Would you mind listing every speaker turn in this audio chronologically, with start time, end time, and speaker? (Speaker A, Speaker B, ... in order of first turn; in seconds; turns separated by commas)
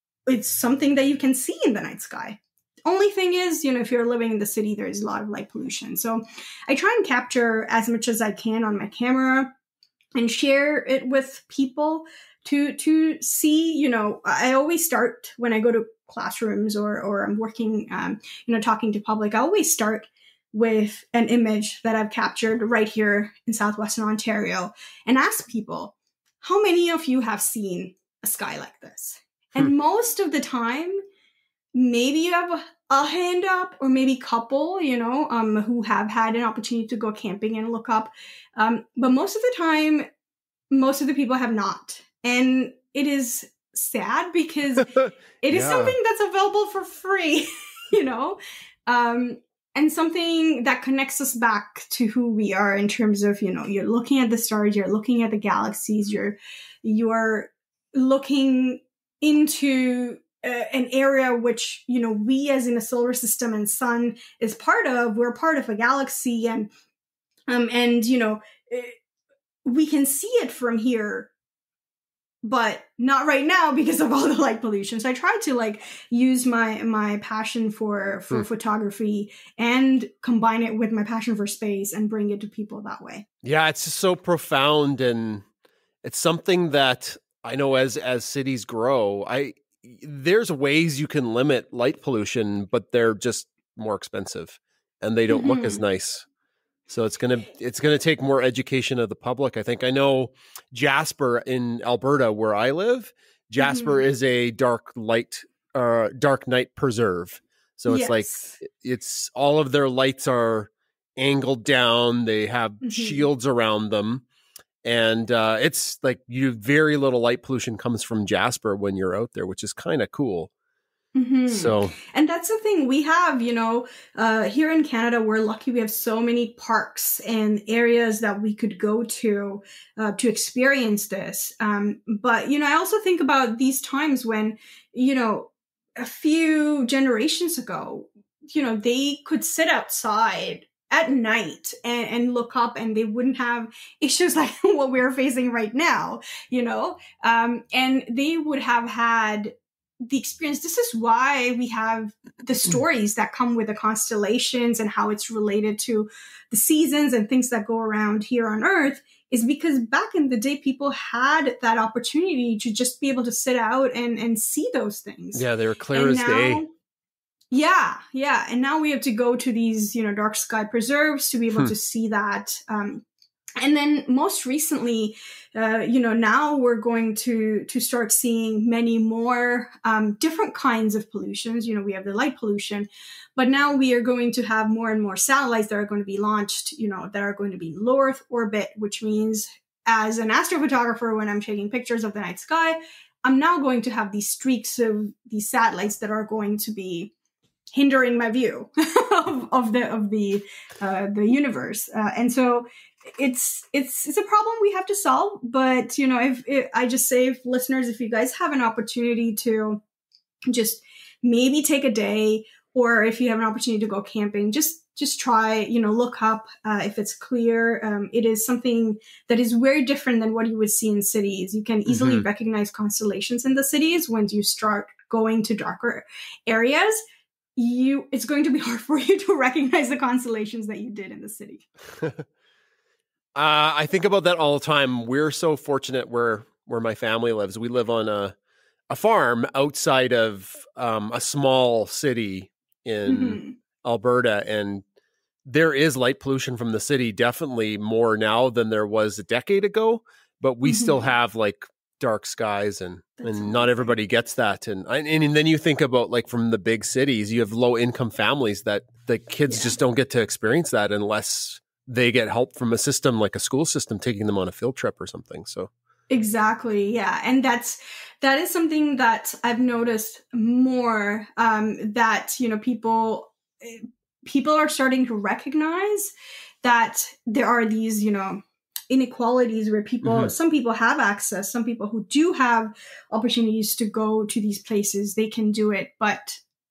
Speaker A: 0.3-9.5, Speaker A: 10.2-31.0, Speaker A: 31.7-40.1, Speaker A: 40.7-66.7, Speaker B: 44.8-46.0, Speaker A: 67.5-69.0, Speaker A: 69.7-71.3, Speaker A: 72.4-83.3, Speaker B: 83.4-85.5, Speaker B: 86.0-96.2, Speaker A: 95.3-95.8, Speaker B: 96.9-114.2, Speaker A: 103.6-104.0, Speaker A: 107.9-108.6, Speaker A: 112.8-113.3, Speaker B: 114.8-120.5, Speaker A: 121.2-166.7, Speaker B: 121.5-122.0, Speaker B: 165.3-166.6, Speaker A: 167.5-173.0, Speaker A: 173.6-197.1, Speaker A: 197.7-202.7, Speaker A: 203.2-209.8, Speaker A: 210.5-227.0, Speaker B: 221.9-222.3, Speaker A: 227.6-231.7, Speaker B: 232.0-232.2, Speaker B: 233.3-238.3, Speaker B: 238.9-244.8, Speaker A: 243.1-243.6, Speaker B: 245.5-265.7, Speaker A: 250.6-251.0, Speaker A: 253.2-253.9, Speaker A: 259.5-259.8, Speaker A: 266.1-276.1, Speaker A: 276.6-286.4, Speaker B: 280.0-280.3